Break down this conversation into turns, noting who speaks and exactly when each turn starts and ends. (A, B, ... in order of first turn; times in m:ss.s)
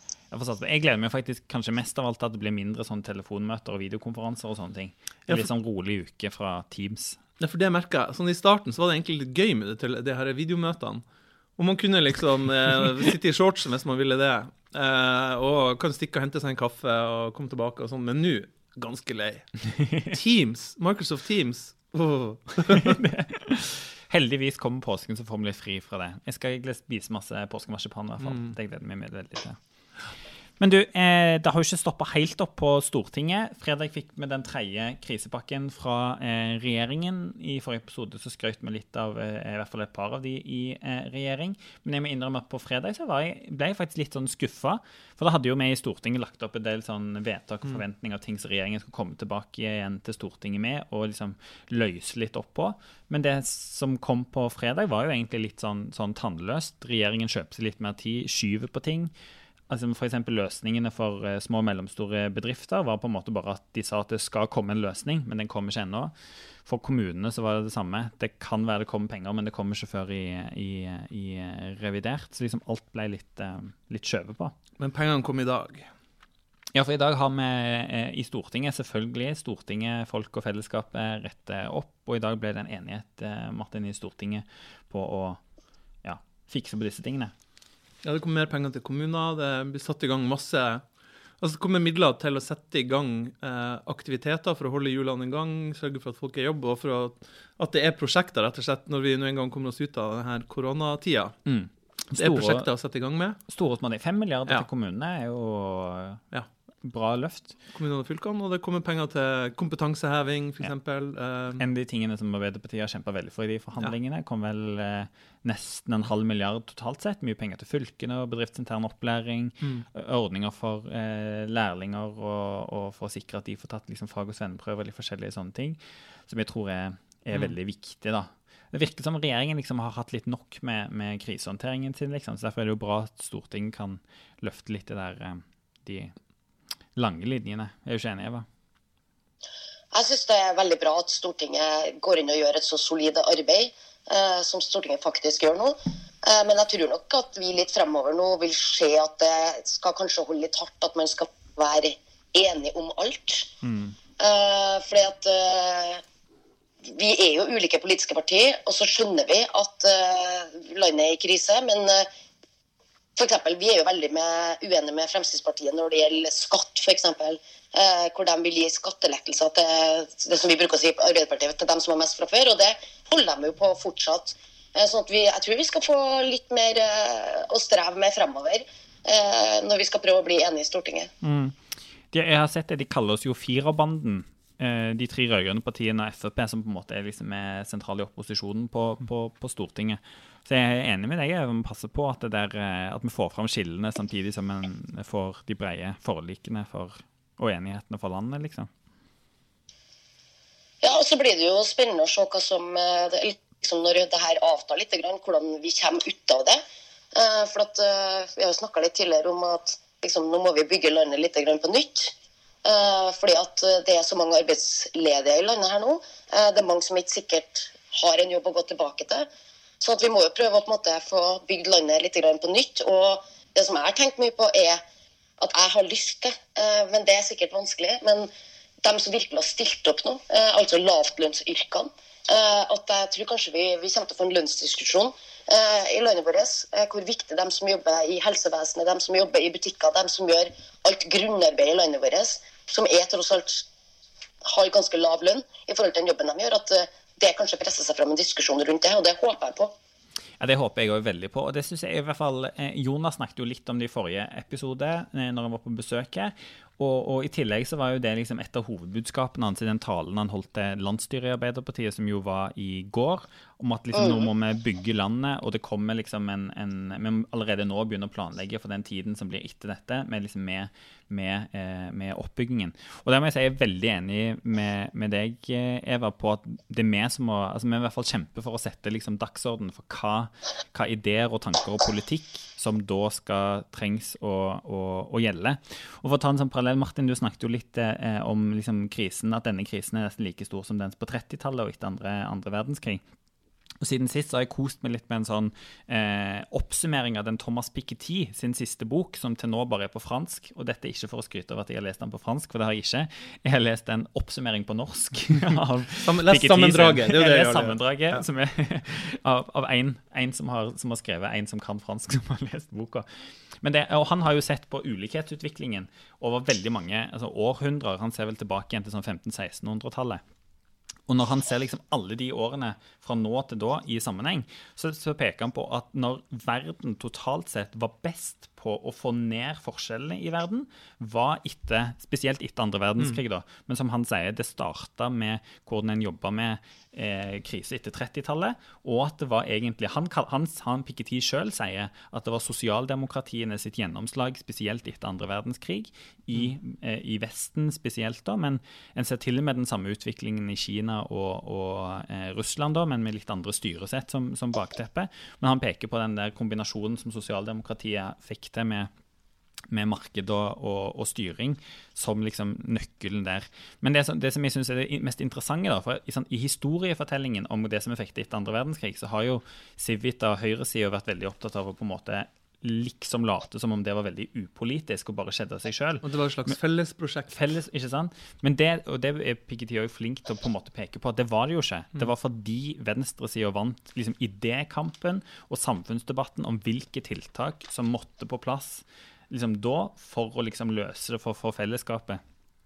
0:00.3-0:07.2 A
0:07.4-0:11.0 B
0:11.6-0:23.0 B
0:22.7-0:29.6 A
0:28.2-0:28.5 B
0:30.6-0:59.1 A
0:59.7-1:06.1 A
1:06.6-1:14.5 A
1:14.8-1:15.9 B
1:16.7-1:25.4 A
1:26.0-1:27.3 A
1:28.0-1:30.8 B
1:31.4-1:41.4 B
1:41.4-1:42.7 A
1:42.1-1:43.4 B
1:43.5-1:46.2 A
1:46.8-1:47.5 A
1:47.7-1:51.6 B
1:51.6-2:16.1 A
1:59.6-1:59.8 B
2:17.0-2:18.4 A
2:19.9-2:33.5 C
2:33.6-2:33.9 A
2:34.2-2:36.0 C
2:36.9-2:42.1 C
2:43.2-3:01.1 C
3:01.2-3:01.6 A
3:02.1-3:18.7 A
3:20.8-3:26.6 C
3:27.1-3:32.1 C
3:32.6-3:39.3 C
3:39.8-3:44.8 C
3:45.4-3:48.3 C
3:48.8-4:03.6 C
4:04.4-4:09.7 C
4:10.4-4:53.0 A
4:23.9-4:24.2 C
4:53.8-5:13.1 A
5:06.0-5:08.2 B
5:13.6-5:20.2 A
5:21.1-5:58.9 A
5:59.7-6:16.0 A
6:16.0-6:17.4 B
6:17.3-6:32.2 A